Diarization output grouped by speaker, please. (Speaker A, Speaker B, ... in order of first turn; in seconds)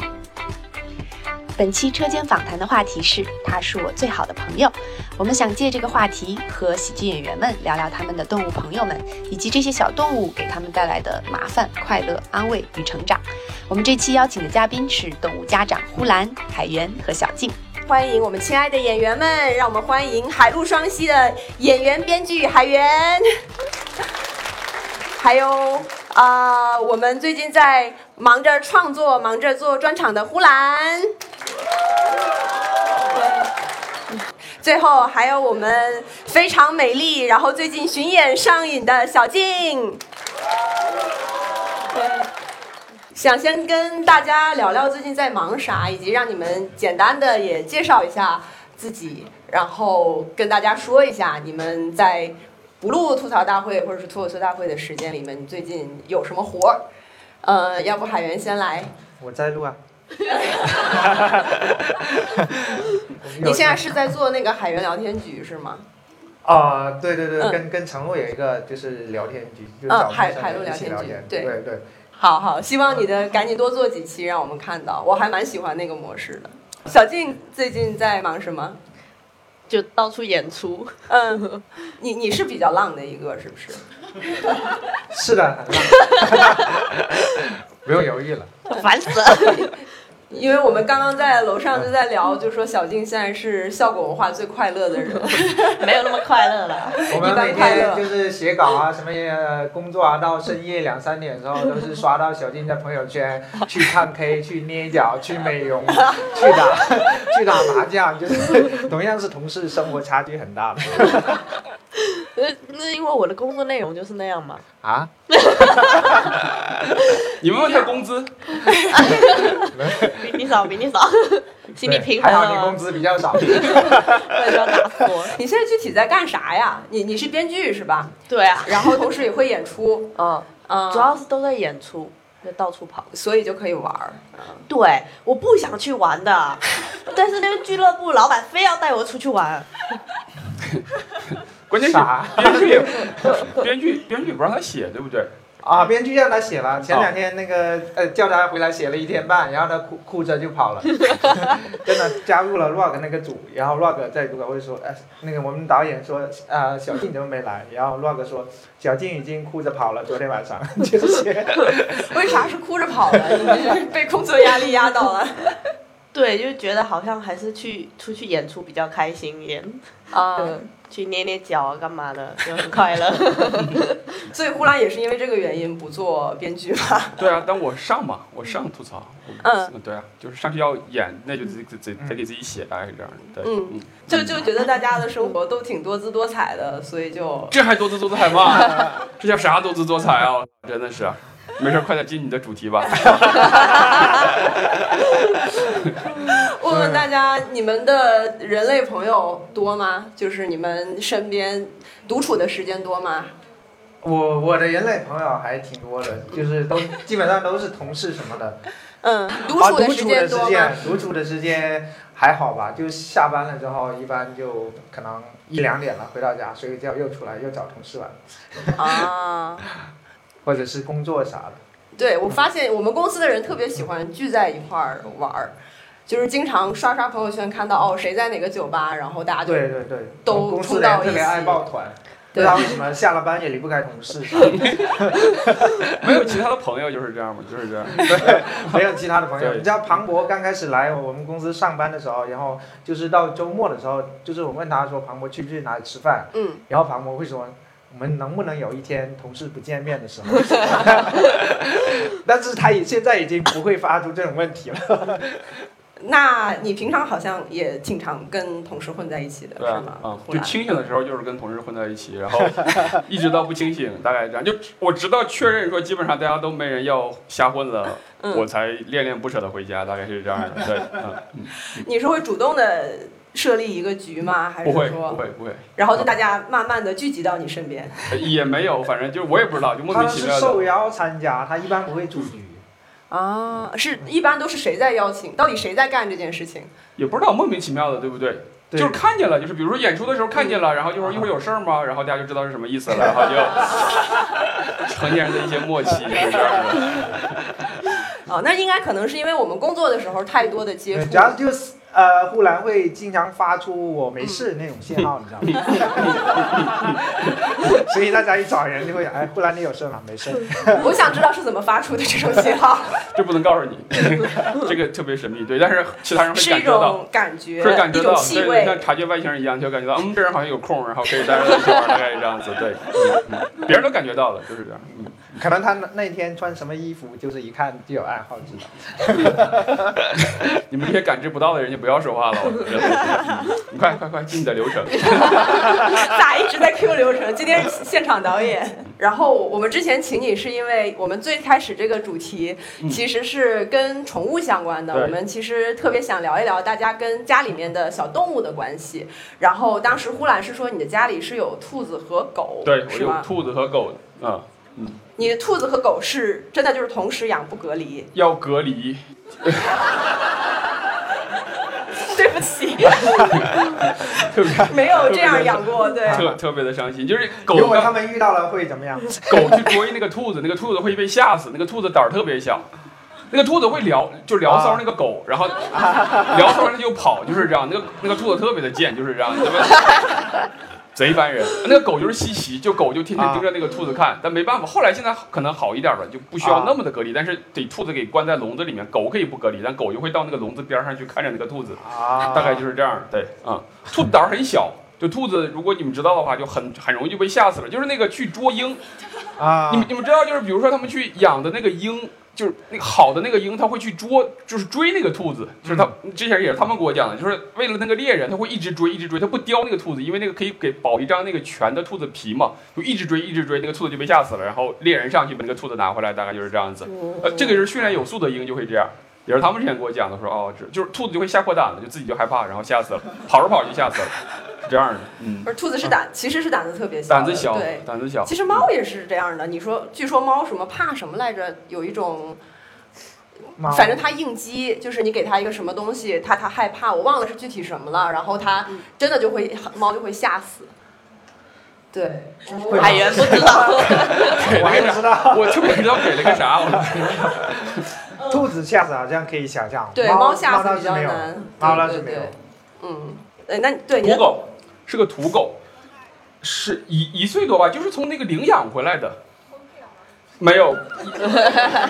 Speaker A: 1.5-17.5
Speaker B: 17.9-23.3, 25.2-31.1, 33.1-33.5, 34.6-40.0, 41.9-42.3, 43.1-56.8, 57.4-58.9, 60.3-61.0, 63.4-65.8, 69.9-71.5, 72.2-78.8, 81.1-83.8, 90.3-95.8, 97.0-98.0, 118.6-119.6, 125.3-130.1, 130.7-131.2, 133.1-134.7, 162.0-165.6, 170.1-170.6, 174.2-177.3, 179.4-179.7, 183.4-187.6, 193.4-194.0, 196.2-203.3, 209.0-210.9, 218.8-219.6, 221.9-225.6, 226.1-229.7, 230.2-231.6, 232.3-232.7, 246.3-246.6, 256.0-260.8, 268.2-268.4, 271.7-275.2, 275.8-278.1, 283.1-286.7, 290.3-290.7, 298.2-301.4, 310.8-313.0, 316.3-318.9, 335.1-353.3, 355.2-358.1, 362.0-363.5, 364.6-366.3, 425.4-432.4, 433.7-440.7, 441.9-444.1, 449.9-454.4
Speaker C: 59.2-59.8, 60.7-64.0, 66.4-71.8, 85.1-88.5, 97.1-111.6, 114.8-116.1, 119.7-120.4, 121.8-124.2, 141.8-143.4, 145.6-162.3, 163.2-163.7, 196.7-197.1, 204.0-208.6, 209.6-219.0, 220.4-221.6, 229.4-235.9, 238.0-255.5, 279.9-282.6, 288.7-289.0, 291.0-291.3, 300.9-306.5, 307.3-311.0, 325.3-330.1, 363.0-363.4, 366.1-366.4, 367.5-369.8, 374.5-374.8, 375.7-376.6, 383.1-383.5, 386.4-386.8, 391.8-392.7, 399.4-399.9, 405.6-405.9, 433.6-434.0, 442.5-452.3
Speaker D: 79.7-81.6, 85.8-86.8, 88.7-89.7, 95.7-97.7, 106.1-106.6, 112.0-114.6, 115.3-116.2, 118.9-122.8, 123.4-125.3, 128.3-129.1, 130.1-133.1, 134.7-140.0, 166.1-169.8, 170.4-174.1, 416.9-417.6, 442.7-444.4
Speaker E: 117.3-118.6, 141.7-145.3, 173.5-173.8, 177.2-184.2, 187.5-194.7, 234.5-235.1, 235.8-238.8, 239.4-239.7, 259.6-271.8, 274.6-276.1, 278.1-280.6, 287.0-294.0, 294.6-297.4, 305.4-307.7, 313.1-317.0, 317.6-325.3, 330.2-336.0, 352.6-355.0, 358.1-359.9, 363.3-367.9, 369.3-372.6, 373.3-398.8, 399.7-425.9, 427.1-428.7, 444.1-447.9, 454.0-455.6, 456.4-459.2, 460.4-461.7